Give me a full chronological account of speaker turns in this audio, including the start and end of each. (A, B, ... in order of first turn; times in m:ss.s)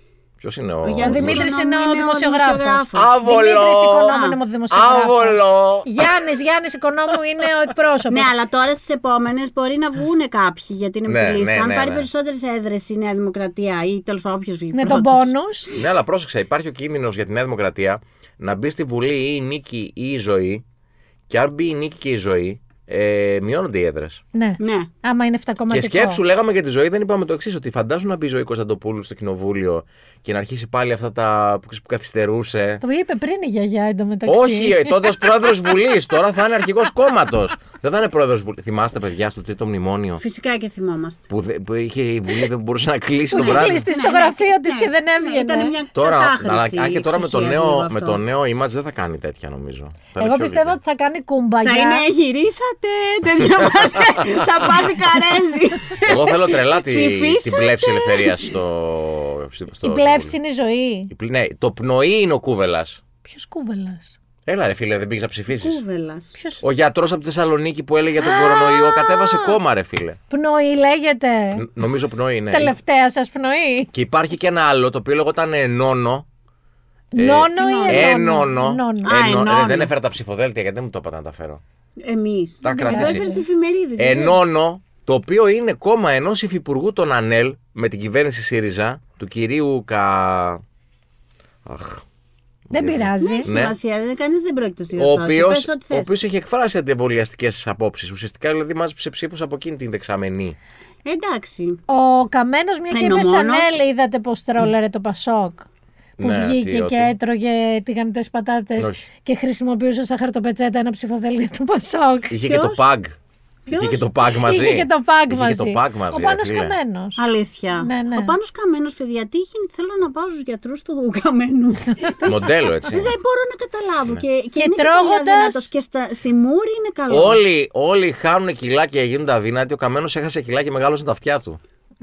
0:00.4-0:01.5 A
0:00.8-0:03.2 B
0:01.0-0:08.3 C
0:02.9-0:04.2 A
0:04.1-0:04.4 B
0:04.7-0:06.1 A
0:08.1-0:15.3 B
0:11.0-0:12.1 A
0:14.7-0:15.7 C
0:15.7-0:20.6 A
0:21.3-0:24.2 A
0:24.3-0:26.2 C
0:24.6-0:24.9 B
0:25.7-0:32.8 A
0:32.8-0:35.5 C
0:34.2-0:40.2 A
0:40.2-0:41.2 B
0:41.3-0:43.8 A
0:43.3-0:45.8 C
0:43.4-0:48.2 B
0:45.9-0:50.8 A
0:50.2-0:52.0 C
0:51.6-0:58.5 B
0:56.0-1:00.3 A
0:59.8-1:01.1 C
1:01.1-1:03.0 A
1:03.2-1:04.2 C
1:04.4-1:05.8 A
1:05.6-1:06.4 B
1:06.4-1:06.6 C
1:06.6-1:10.2 A
1:08.2-1:09.6 C
1:10.3-1:11.7 C
1:11.5-1:12.7 A
1:12.5-1:13.9 C
1:13.9-1:16.2 A
1:17.1-1:19.1 C
1:17.2-1:21.6 A
1:17.6-1:18.2 B
1:19.0-1:19.9 B
1:22.0-1:24.4 B
1:22.6-1:23.2 A
1:22.6-1:23.4 C
1:24.0-1:30.6 A
1:31.6-1:32.0 A
1:32.7-1:33.5 C
1:32.7-1:33.7 A
1:33.2-1:36.1 B
1:35.0-1:40.6 A
1:41.0-1:41.8 B
1:41.9-1:45.7 C
1:42.9-1:43.8 B
1:46.2-1:47.1 A
1:46.2-1:52.4 C
1:48.8-1:49.1 A
1:52.3-1:53.2 A
1:52.4-1:52.8 B
1:53.7-1:54.1 B
1:53.7-1:56.8 A
1:54.4-1:57.2 C
1:57.2-2:07.4 B
1:57.7-1:58.4 C
2:02.2-2:03.1 A
2:04.5-2:05.7 C
2:07.1-2:11.6 A